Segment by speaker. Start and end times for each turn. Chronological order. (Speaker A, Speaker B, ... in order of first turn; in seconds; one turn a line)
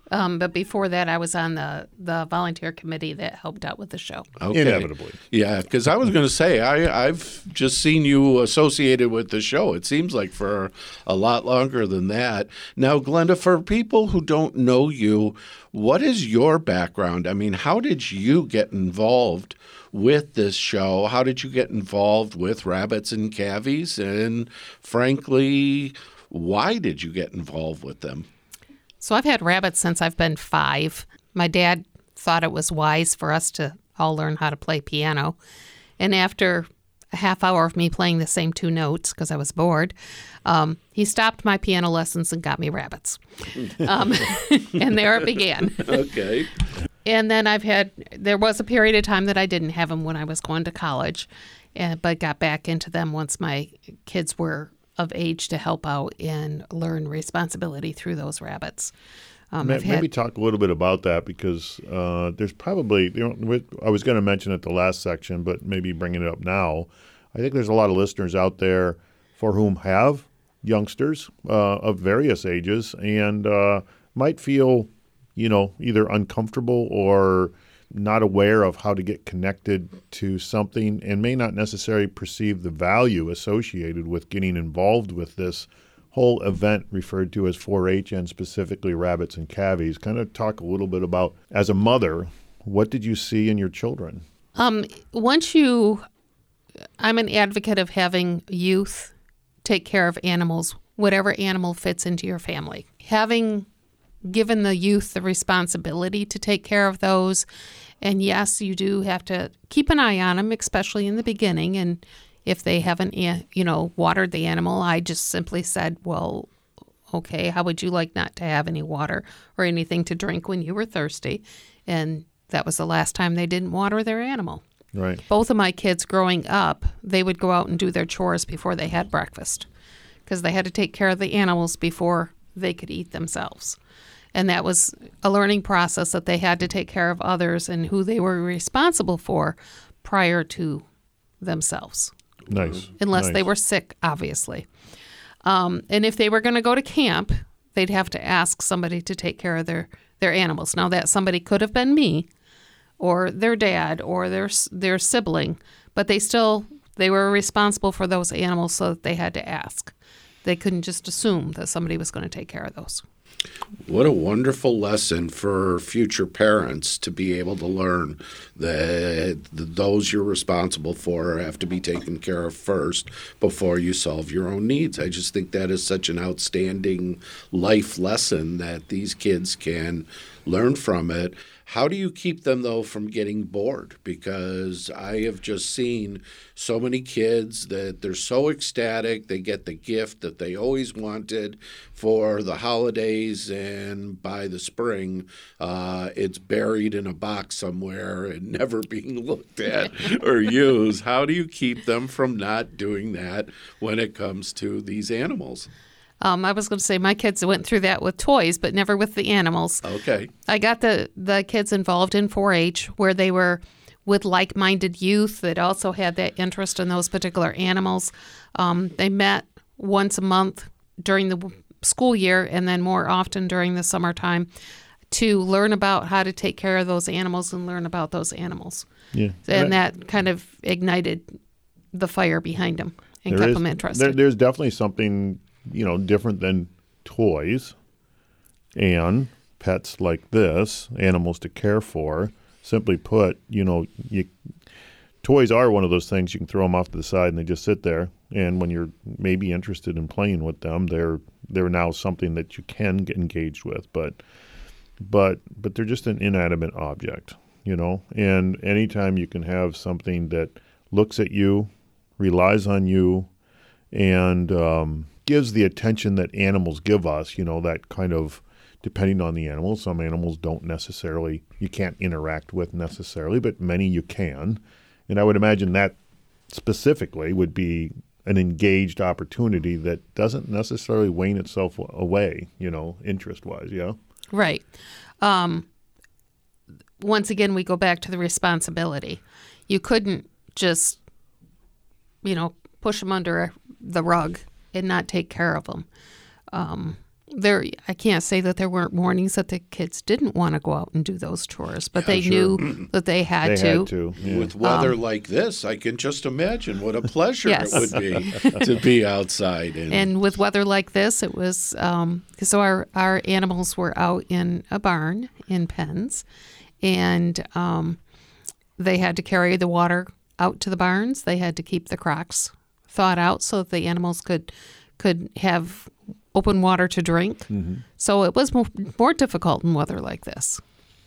Speaker A: 0.1-4.3
Speaker B: 4.4-28.3
Speaker C: 4.5-5.2
Speaker A: 29.0-35.4
Speaker A: 36.0-39.9
Speaker A: 40.5-46.1
Speaker B: 45.9-46.5
Speaker A: 47.0-58.9
Speaker A: 59.5-60.1
Speaker C: 59.6-94.2
Speaker A: 94.5-96.0
Speaker A: 97.0-103.7
Speaker A: 104.2-107.5
Speaker A: 108.0-116.5
Speaker A: 117.1-124.6
Speaker C: 124.9-125.2
Speaker A: 125.3-129.7
Speaker A: 130.2-133.8
Speaker A: 134.3-140.8
Speaker A: 141.4-142.1
Speaker C: 142.5-143.4
Speaker A: 143.0-144.7
Speaker A: 145.4-152.3
Speaker A: 153.0-159.9
Speaker A: 160.4-163.0
Speaker B: 163.8-205.7
Speaker A: 206.2-209.8
Speaker B: 209.8-210.3
Speaker A: 210.5-224.5
Speaker A: 225.1-228.9
Speaker C: 229.1-229.8
Speaker A: 229.4-231.3
Speaker A: 231.9-234.2
Speaker C: 233.3-237.7
Speaker C: 238.7-244.3
Speaker C: 245.2-254.2
Speaker C: 255.0-263.3
Speaker C: 263.9-275.9
Speaker C: 276.5-284.0
Speaker A: 284.3-284.7
Speaker A: 285.2-285.6
Speaker A: 287.0-291.0
Speaker A: 292.2-295.9
Speaker A: 296.5-303.9
Speaker B: 302.1-302.8
Speaker C: 303.4-304.5
Speaker B: 304.2-310.1
Speaker A: 304.6-304.9
Speaker A: 307.4-308.6
Speaker A: 309.9-316.2
Speaker A: 316.8-318.0
Speaker A: 318.8-330.6
Speaker C: 327.5-327.8